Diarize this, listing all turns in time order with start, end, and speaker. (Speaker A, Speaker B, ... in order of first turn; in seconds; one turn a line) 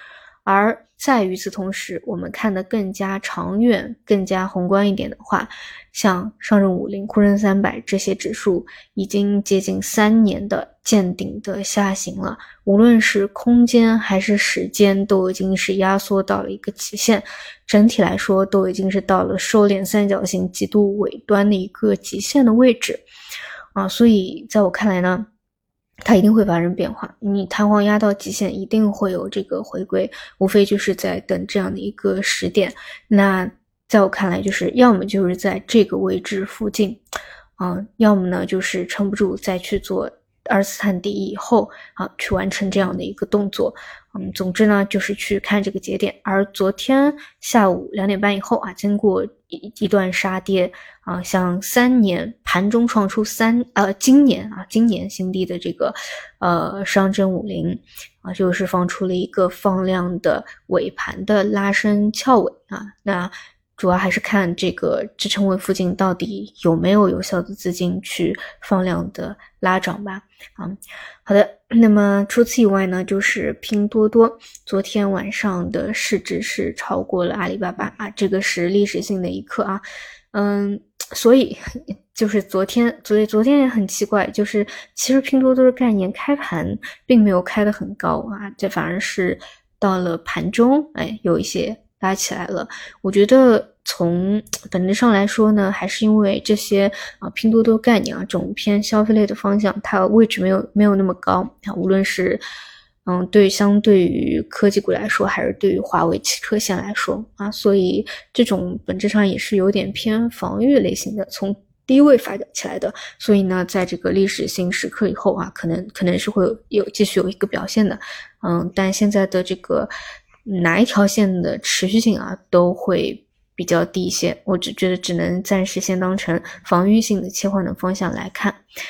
Speaker A: 0.5-23.0
Speaker A: 23.8-25.3
Speaker A: 26.1-37.0
Speaker A: 37.6-81.6
Speaker A: 82.1-102.4
Speaker A: 103.0-119.9
Speaker A: 120.5-128.6